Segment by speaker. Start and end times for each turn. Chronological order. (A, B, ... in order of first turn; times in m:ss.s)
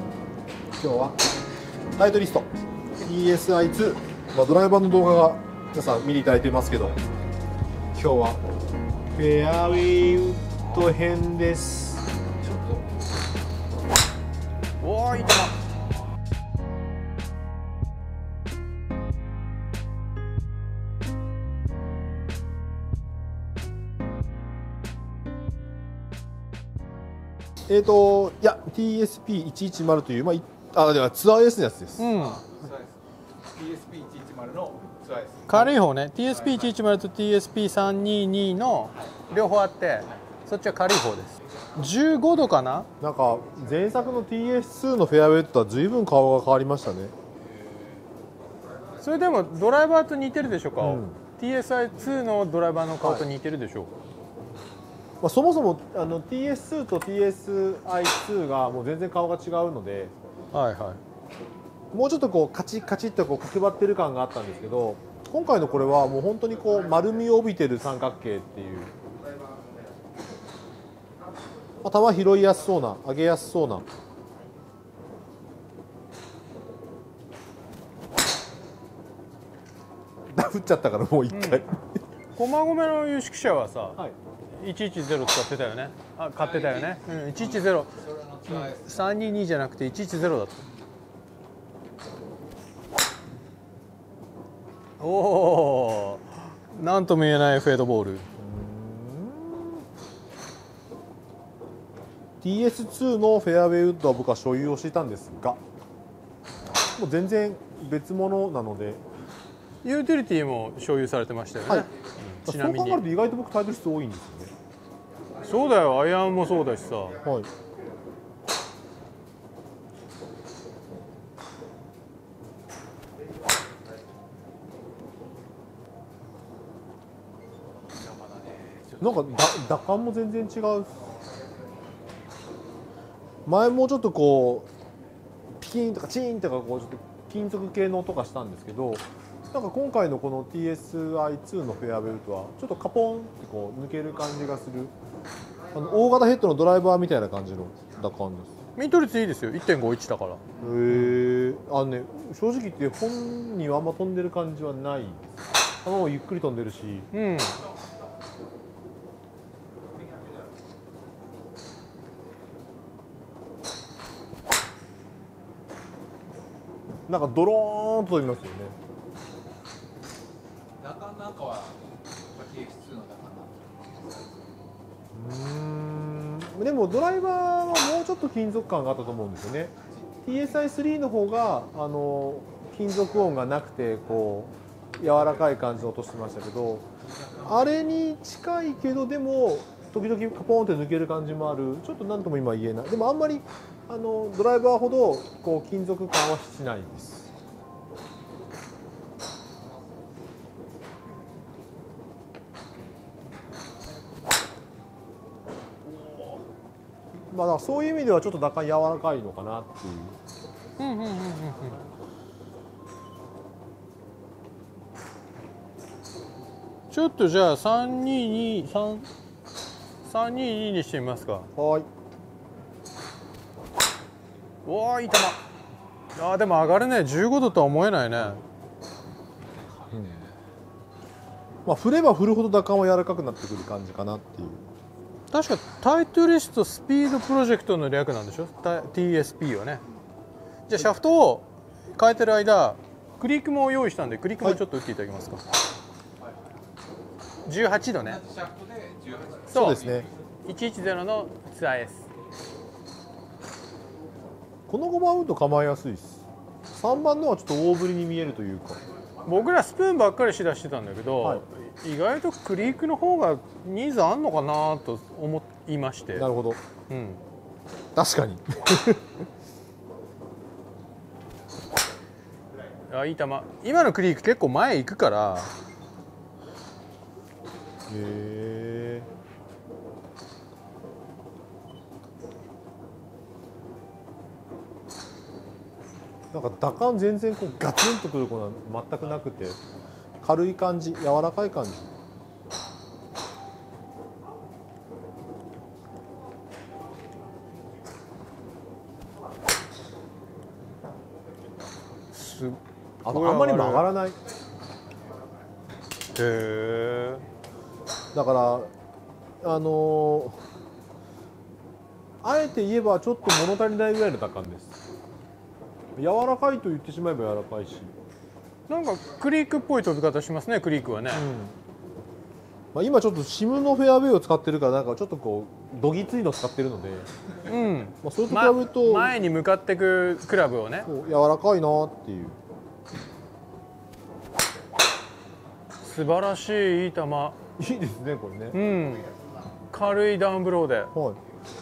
0:00.8-0:01.2 A
0:02.0-0:07.0 A
0:07.9-0:08.4 A
0:09.1-0:12.0 A
0:14.8-0:15.5 B
0:27.7-0:32.1 A
0:32.0-0:32.4 B
0:32.2-0:35.7 C
0:35.5-0:42.9 B
0:43.0-0:47.1 A
0:49.0-0:53.9 B
0:50.8-0:51.2 A
0:53.0-0:53.2 A
0:55.2-1:00.1 A
1:00.5-1:01.0 B
1:01.9-1:08.9 A
1:11.8-1:13.9 A
1:20.3-1:22.0 A
1:21.3-1:21.6 B
1:22.3-1:24.0 B
1:24.6-1:30.6 B
1:26.4-1:29.0 C
1:35.0-1:38.3 B
1:38.4-1:39.8 A
1:42.4-1:45.6 A
1:46.9-1:49.0 A
1:49.8-1:53.0 B
1:52.4-1:54.5 A
1:55.4-1:57.2 B
1:57.2-1:57.5 A
2:07.9-2:09.3 C
2:09.0-2:11.0 A
2:13.4-2:14.7 A
2:15.6-2:24.9 A
2:25.7-2:28.5 A
2:28.8-2:31.2 B
2:30.6-2:37.1 A
2:37.1-2:37.6 B
2:47.1-2:48.8 A
2:50.8-2:51.8 C
2:52.3-2:54.3 C
2:55.1-2:59.7 A
3:00.2-3:06.8 A
3:07.4-3:17.3 A
3:27.2-3:30.2 A
3:30.8-3:31.8 B
3:36.9-3:39.0 B
3:40.0-3:41.5 B
3:41.6-3:41.9 A
3:44.6-3:45.4 B
3:46.2-3:48.4 B
3:49.9-3:50.3 A
3:51.6-3:54.7 A
3:55.3-3:59.8 B
4:00.7-4:05.4 B
4:07.4-4:08.2 B
4:08.0-4:10.1 C
4:09.5-4:09.9 B
4:09.5-4:10.1 A
4:10.4-4:12.1 B
4:14.7-4:18.8 A
4:19.2-4:26.3 B
4:26.1-4:26.6 A
4:26.9-4:27.2 B
4:27.9-4:29.1 A
4:32.9-4:35.5 B
4:37.9-4:39.1 A
4:46.3-4:49.6 A
4:50.2-4:51.9 A
5:02.1-5:03.9 B
5:03.0-5:04.2 A
5:06.1-5:07.2 B
5:08.1-5:08.7 A
5:09.4-5:10.4 A
5:12.2-5:14.8 A
5:16.0-5:17.9 A
5:18.7-5:21.3 B
5:21.1-5:21.6 A
5:22.7-5:27.1 A
5:27.5-5:30.9 B
5:28.0-5:29.2 A
5:30.8-5:32.4 A
5:35.8-5:37.4 B
5:37.6-5:38.6 A
5:38.5-5:39.1 B
5:39.7-5:40.9 B
5:40.9-5:41.2 A